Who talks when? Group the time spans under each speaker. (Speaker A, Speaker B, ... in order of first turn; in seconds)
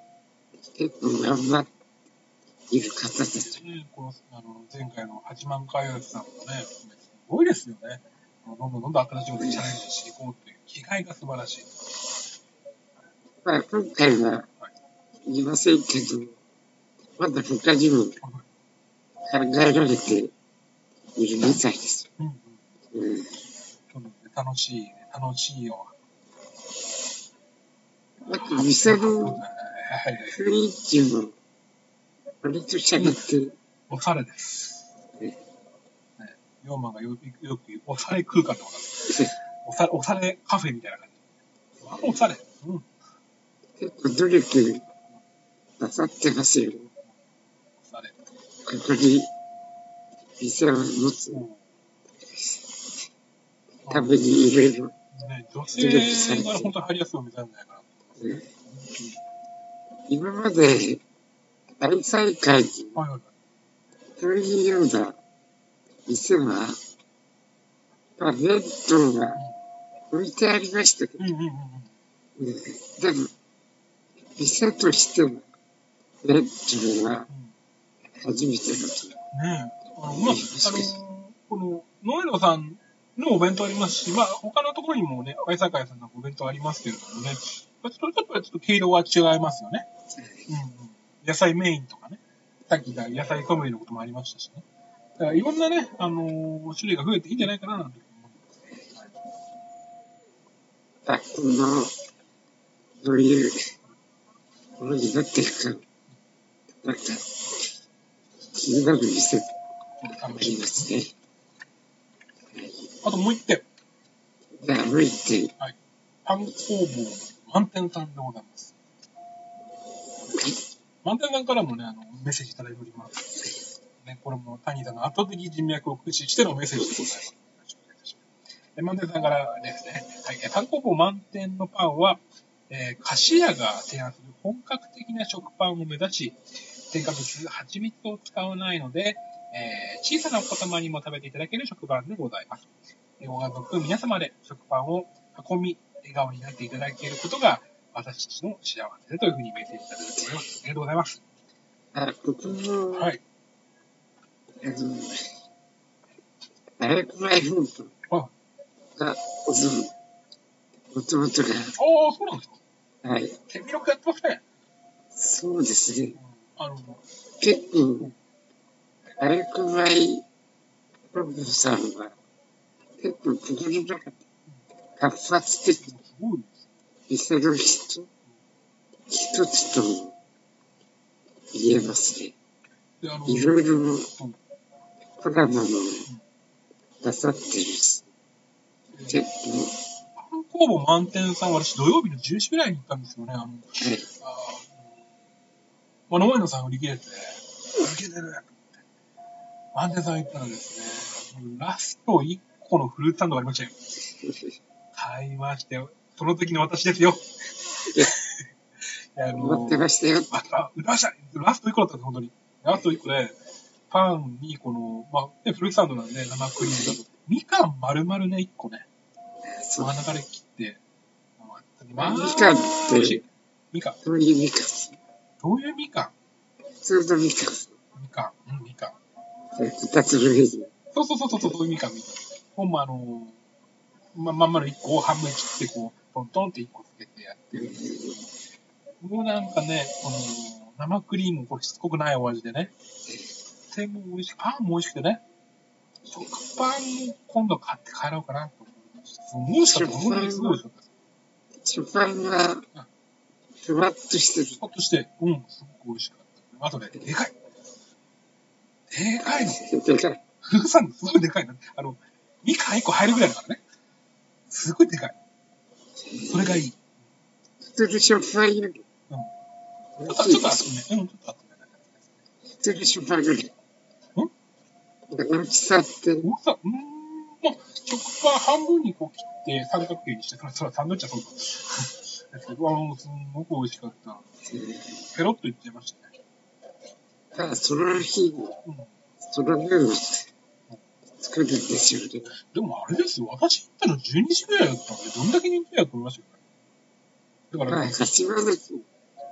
Speaker A: 0.7-1.7, 2.7-3.6, 9.4-9.7, 13.4-14.5, 15.2-16.4, 17.2-18.2, 19.2-20.3, 21.1-22.1, 22.9-23.4, 28.2-29.4, 30.3-31.4, 32.4-33.5, 39.1-39.3, 43.8-44.9, 45.8-46.9, 48.6-49.3, 50.4-51.4, 52.3-52.9, 53.9-54.9, 55.7-56.7, 58.2-58.5, 60.1-61.0, 61.8-63.0, 64.2-65.2, 66.1-66.8, 68.2-69.4, 70.1-71.3, 72.4-73.3, 74.3-75.5, 76.2-77.3, 78.2-79.2, 80.1-80.9, 90.1-90.5, 101.0-101.9, 103.0-103.7, 104.8-105.8, 106.8-107.2, 108.5-109.5, 110.3-111.1, 112.5-112.9, 114.6-115.5, 120.3-120.6, 151.9-153.1, 154.6-155.3, 156.8-157.9, 159.0-159.9, 160.9-161.8, 163.0-163.4, 165.1-166.2, 167.4-168.1, 169.2-170.2, 171.1-172.2, 173.0-174.2, 175.0-175.9, 177.1-178.1, 179.1-180.2, 181.5-182.3, 183.3-184.1, 185.2-186.1, 187.0-188.0, 189.0-189.8, 193.8-194.1, 204.1-204.6, 207.9-208.1, 209.3-210.4, 219.4-219.9, 221.9-223.2, 224.0-225.0, 226.8-227.7, 229.6-230.7, 237.5-238.2, 243.1-243.3, 249.6-250.6, 251.6-252.7, 253.6-254.6, 259.2-260.2, 266.0-266.6, 267.6-268.8, 270.0-270.6, 272.6-273.5, 275.1-276.3, 284.4-285.0, 287.3-288.6, 289.2-290.3, 291.2-292.4, 297.7-298.8
Speaker B: 3.4-11.7, 18.2-18.4, 22.2-22.6, 23.9-25.9, 28.3-30.4, 33.9-34.9, 36.2-41.2, 41.8-42.9, 47.8-48.2, 51.3-51.6, 53.9-54.2, 55.1-59.2, 62.9-63.3, 71.2-71.9, 79.3-89.9, 90.5-94.7, 95.2-98.5, 110.0-110.9, 113.0-113.6, 115.6-118.7, 121.0-123.4, 124.0-128.2, 128.8-151.2, 152.9-153.2, 161.8-162.6, 163.5-164.4, 166.2-167.0, 175.8-176.6, 183.0-184.4, 188.9-189.2, 190.2-194.8, 196.1-198.8, 199.7-203.8, 204.9-207.3, 207.8-213.3, 213.9-218.9, 219.8-220.8, 221.4-224.0, 225.4-226.1, 227.9-229.0, 230.9-233.4, 234.1-238.2, 239.0-242.7, 243.7-245.2, 246.1-250.9, 254.6-257.4, 258.9-259.6, 260.4-263.6, 264.5-265.2, 266.3-266.8, 270.1-272.1, 276.2-284.2, 285.1-286.1, 288.6-288.9, 292.4-296.4, 297.5-297.9